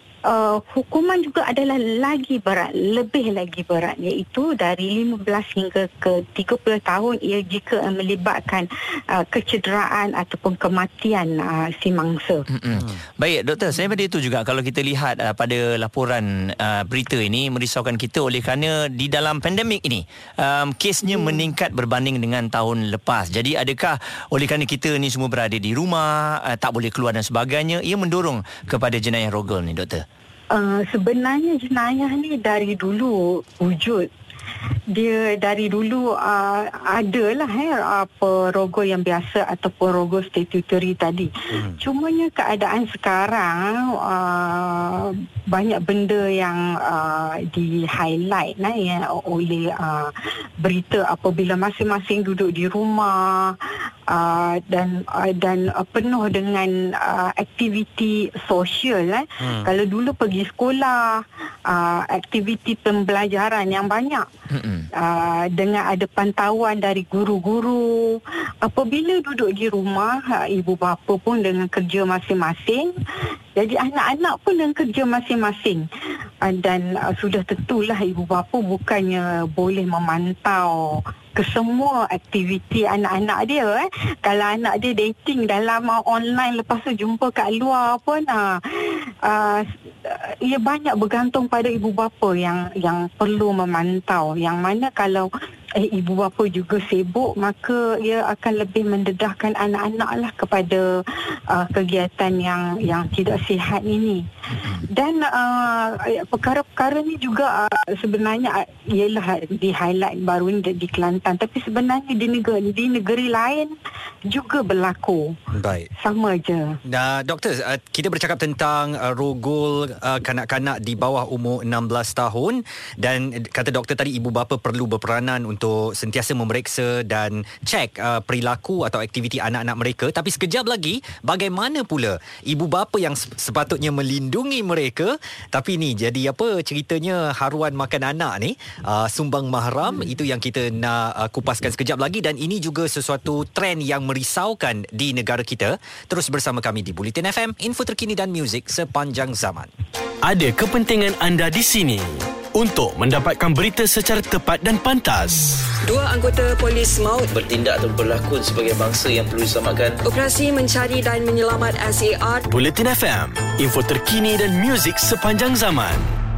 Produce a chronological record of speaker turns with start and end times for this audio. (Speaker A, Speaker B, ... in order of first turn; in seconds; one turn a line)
Speaker A: 0.3-12.4
Speaker B: 12.5-30.0
Speaker C: 12.7-13.0
Speaker A: 30.5-34.1
Speaker A: 34.9-53.6
Speaker C: 41.5-41.8
Speaker A: 54.1-64.2
Speaker C: 59.4-59.7
Speaker B: 64.5-64.9
Speaker A: 65.0-72.9
Speaker A: 73.5-75.8
Speaker A: 76.4-100.8
Speaker A: 101.5-113.7
Speaker B: 104.5-104.8
Speaker A: 114.3-115.4
Speaker C: 115.5-115.9
Speaker A: 116.0-116.8
Speaker C: 116.8-149.7
Speaker D: 150.2-155.7
Speaker E: 155.8-157.3
Speaker F: 157.3-160.0
Speaker E: 160.0-162.5
Speaker D: 162.5-166.2